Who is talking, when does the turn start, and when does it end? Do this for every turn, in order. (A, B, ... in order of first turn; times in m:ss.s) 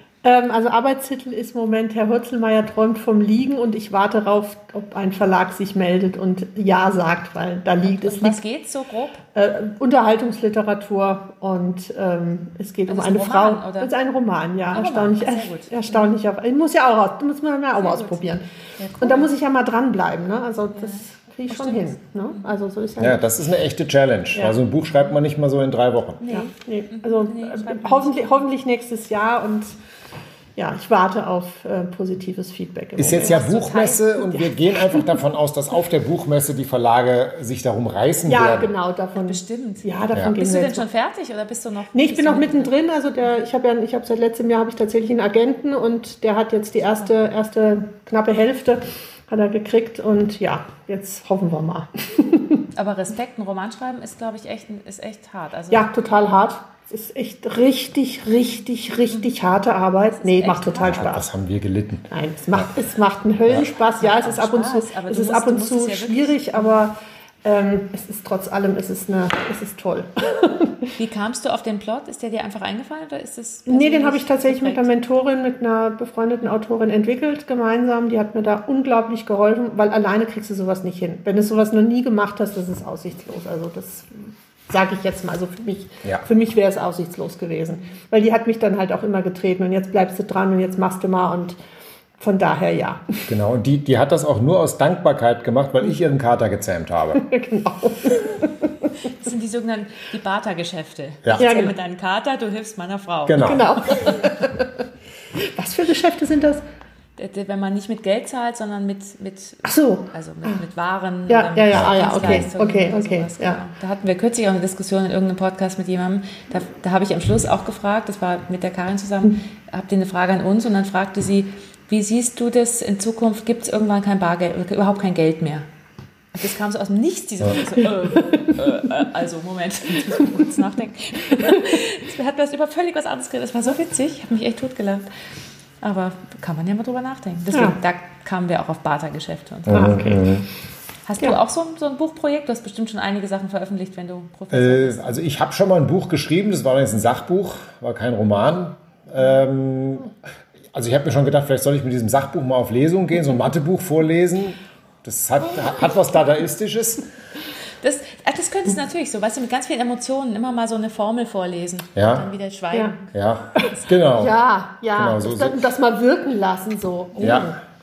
0:00.2-0:08.4 A
0:07.8-0:09.2 B
0:09.4-0:18.4 A
0:12.9-0:13.9 B
0:14.7-0:16.1 B
0:17.8-0:19.3 B
0:19.0-0:23.2 A
0:20.8-0:22.5 B
0:23.0-0:26.2 C
0:24.3-0:24.6 A
0:26.2-0:28.5 B
0:26.3-0:29.7 A
0:30.6-0:33.4 A
0:33.0-0:38.7 C
0:33.1-0:34.5 B
0:38.3-0:40.9 A
0:39.2-0:42.8 B
0:41.9-0:52.6 A
0:52.7-0:55.9 B
0:55.7-1:01.3 A
1:00.1-1:01.1 B
1:00.9-1:02.7 C
1:02.1-1:10.9 A
1:04.0-1:06.9 B
1:11.0-1:14.9 B
1:13.7-1:31.6 A
1:32.2-1:33.3 A
1:33.3-1:37.2 C
1:37.2-1:38.6 A
1:39.0-1:44.2 B
1:41.2-1:41.6 C
1:41.4-1:41.8 A
1:43.3-1:43.7 C
1:43.4-1:44.7 A
1:45.4-1:46.6 A
1:47.2-2:05.7 B
1:49.6-1:50.6 A
1:51.3-1:53.6 A
1:51.7-1:52.5 C
2:06.3-2:15.1 B
2:15.8-2:20.1 B
2:19.7-2:20.5 C
2:19.7-2:20.3 A
2:21.1-2:25.2 B
2:24.5-2:30.1 C
2:30.7-2:37.0 C
2:37.8-2:43.1 B
2:42.0-2:42.3 C
2:43.1-2:44.3 C
2:43.6-2:47.6 A
2:45.0-2:45.6 C
2:47.2-2:47.5 C